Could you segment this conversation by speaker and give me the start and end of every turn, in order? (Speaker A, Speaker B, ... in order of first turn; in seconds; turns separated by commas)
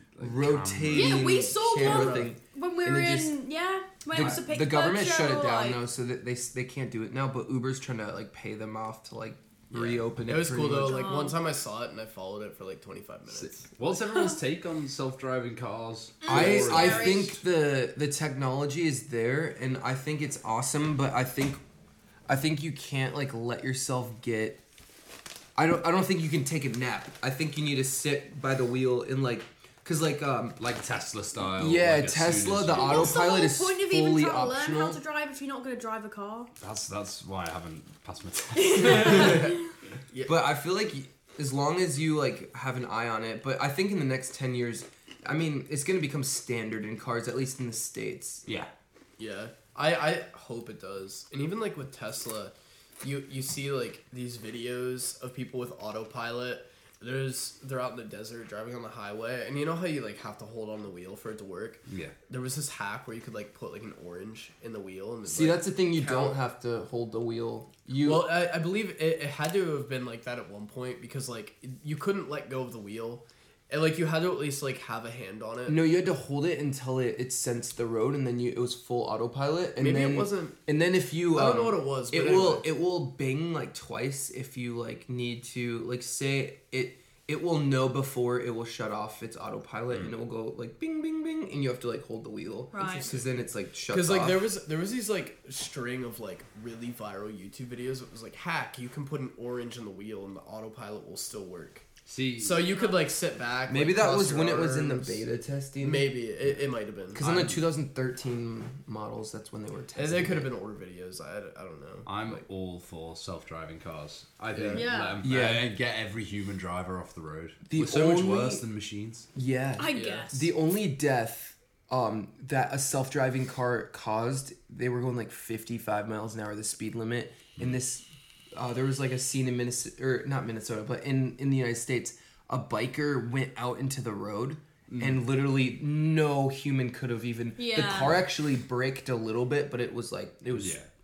Speaker A: 0.1-1.3, Speaker B: 0.2-3.4, Speaker C: 0.9-5.8, Speaker D: 1.8-2.3, Speaker B: 4.1-11.2, Speaker D: 9.7-13.7, Speaker C: 10.8-11.4, Speaker A: 13.8-17.4, Speaker C: 16.2-17.3, Speaker B: 16.3-21.6, Speaker B: 22.3-24.6, Speaker B: 25.6-30.6, Speaker A: 30.6-33.2, Speaker B: 31.5-35.0, Speaker C: 32.7-36.5, Speaker A: 36.6-39.5, Speaker C: 38.5-39.6, Speaker B: 39.0-39.5, Speaker D: 40.1-40.3, Speaker B: 40.2-48.4, Speaker D: 49.2-66.4, Speaker A: 61.9-62.1, Speaker B: 65.3-68.3, Speaker D: 68.0-75.8, Speaker B: 75.7-94.5, Speaker D: 79.8-80.6, Speaker D: 81.3-82.6, Speaker C: 92.7-93.1, Speaker D: 92.8-93.3, Speaker D: 93.9-101.8, Speaker A: 102.0-102.7, Speaker D: 102.4-105.2, Speaker C: 102.5-103.0, Speaker B: 103.7-106.1, Speaker D: 105.8-107.2, Speaker B: 107.1-110.5, Speaker A: 107.2-107.7, Speaker D: 110.0-112.4, Speaker A: 112.0-119.3, Speaker D: 114.5-114.8, Speaker C: 114.7-115.2, Speaker B: 115.2-115.7, Speaker B: 117.7-118.6, Speaker B: 119.3-140.8, Speaker C: 119.8-120.5, Speaker D: 119.9-120.2, Speaker A: 134.9-135.2, Speaker C: 137.6-138.1, Speaker A: 140.5-140.9